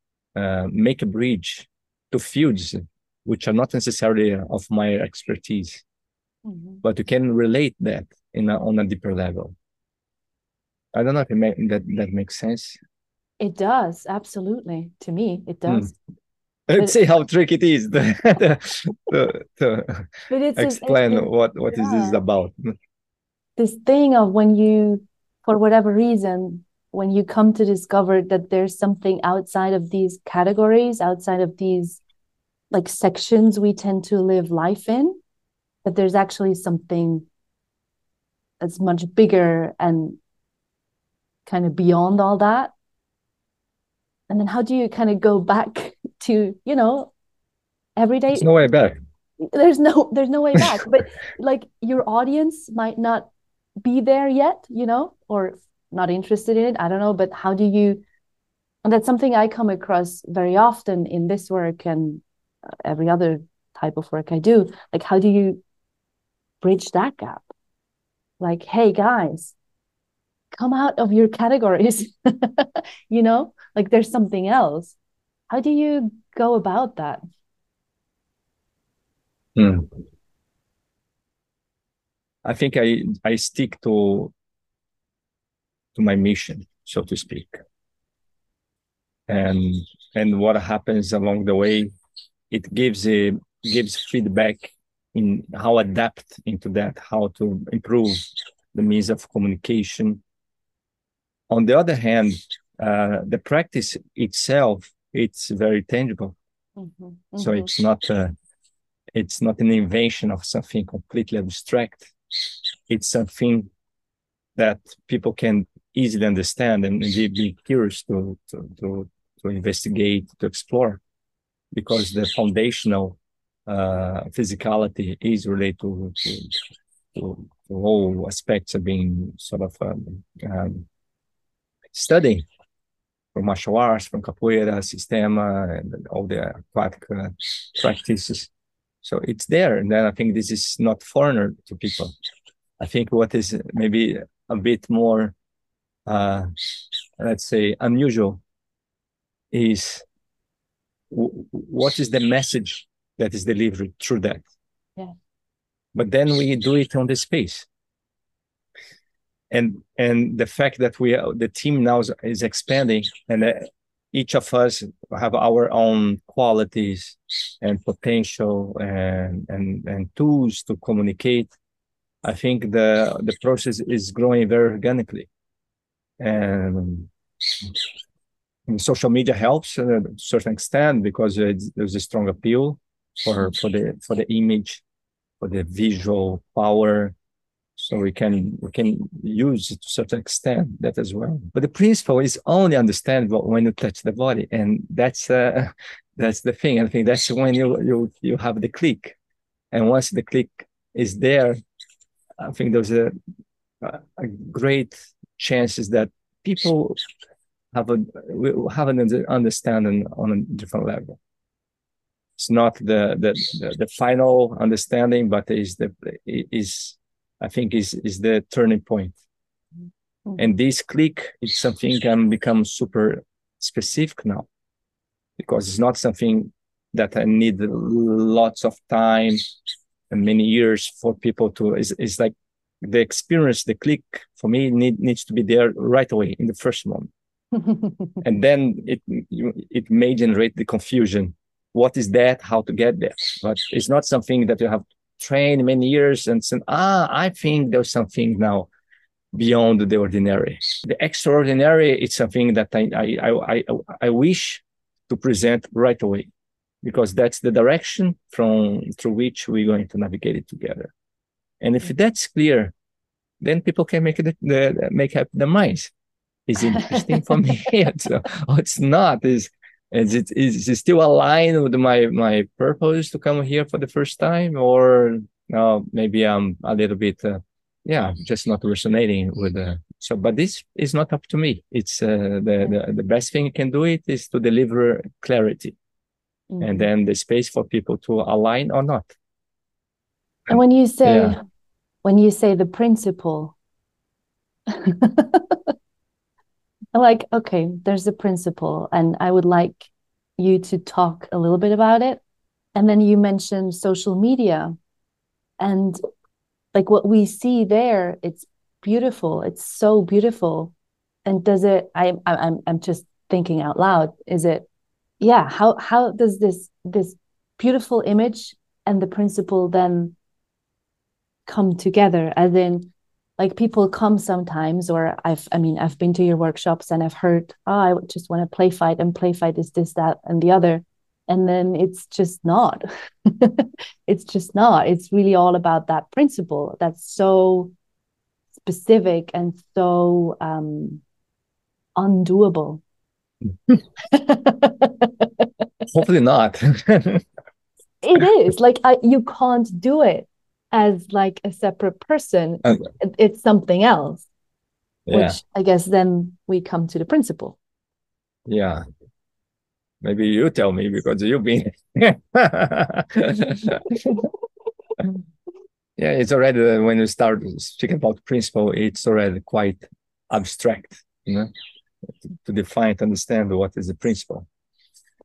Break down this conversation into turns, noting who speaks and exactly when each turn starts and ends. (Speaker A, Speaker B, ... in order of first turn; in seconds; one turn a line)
Speaker A: 0.3-5.8
Speaker B: 6.4-6.8
Speaker A: 6.8-9.6
Speaker A: 10.9-12.8
Speaker B: 13.4-15.9
Speaker A: 16.7-22.8
Speaker B: 20.3-22.2
Speaker B: 23.6-32.0
Speaker B: 32.7-35.2
Speaker B: 35.8-37.2
Speaker B: 38.6-40.2
Speaker B: 41.5-42.7
Speaker B: 44.3-47.1
Speaker B: 48.0-48.5
Speaker A: 48.3-49.0
Speaker B: 49.4-53.3
Speaker B: 53.8-58.0
Speaker B: 58.9-62.2
Speaker B: 62.8-65.6
Speaker B: 66.6-67.5
Speaker B: 68.4-69.5
Speaker B: 70.5-75.0
Speaker B: 75.5-77.2
Speaker A: 79.6-79.9
Speaker A: 82.4-84.3
Speaker A: 85.9-87.6
Speaker A: 89.3-91.9
Speaker A: 92.5-100.2
Speaker A: 101.5-106.4
Speaker B: 106.8-107.7
Speaker A: 107.4-108.3
Speaker A: 109.1-113.7
Speaker A: 114.6-121.0
Speaker A: 121.7-126.6
Speaker A: 127.1-130.9
Speaker A: 131.9-132.4
Speaker A: 133.3-138.5
Speaker A: 139.0-142.1
Speaker A: 142.8-145.3
Speaker A: 146.1-146.5
Speaker A: 147.2-148.4
Speaker A: 149.5-150.1
Speaker A: 151.1-154.4
Speaker A: 155.9-157.7
Speaker A: 159.5-171.5
Speaker A: 172.2-175.3
Speaker A: 176.2-177.8
Speaker A: 178.7-184.8
Speaker A: 185.4-187.2
Speaker A: 187.8-199.2
Speaker A: 199.7-201.6
Speaker A: 202.4-203.1
Speaker A: 203.8-207.0
Speaker A: 207.7-211.2
Speaker A: 212.4-219.2
Speaker A: 220.4-224.5
Speaker A: 225.4-229.4
Speaker A: 230.1-237.1
Speaker B: 237.6-238.1
Speaker A: 238.2-248.7
Speaker A: 249.3-256.3
Speaker A: 256.8-260.9
Speaker A: 261.6-262.7
Speaker A: 263.4-265.9
Speaker A: 266.5-285.8
Speaker B: 266.7-267.0
Speaker B: 286.5-286.9
Speaker A: 286.6-289.1
Speaker B: 290.5-291.4
Speaker A: 291.1-291.4
Speaker B: 292.0-293.6
Speaker B: 294.7-295.6
Speaker B: 296.9-302.2
Speaker B: 302.7-304.7
Speaker B: 305.6-306.0
Speaker B: 306.7-310.7
Speaker B: 311.3-314.7
Speaker B: 315.2-320.1
Speaker B: 321.5-337.7
Speaker B: 338.6-341.0
Speaker B: 341.9-342.8
Speaker B: 344.0-345.5
Speaker A: 345.9-347.2
Speaker B: 348.0-354.3
Speaker A: 355.1-355.4
Speaker B: 355.1-357.6
Speaker A: 358.5-358.8
Speaker A: 360.0-364.2
Speaker A: 366.0-371.5
Speaker A: 372.2-374.5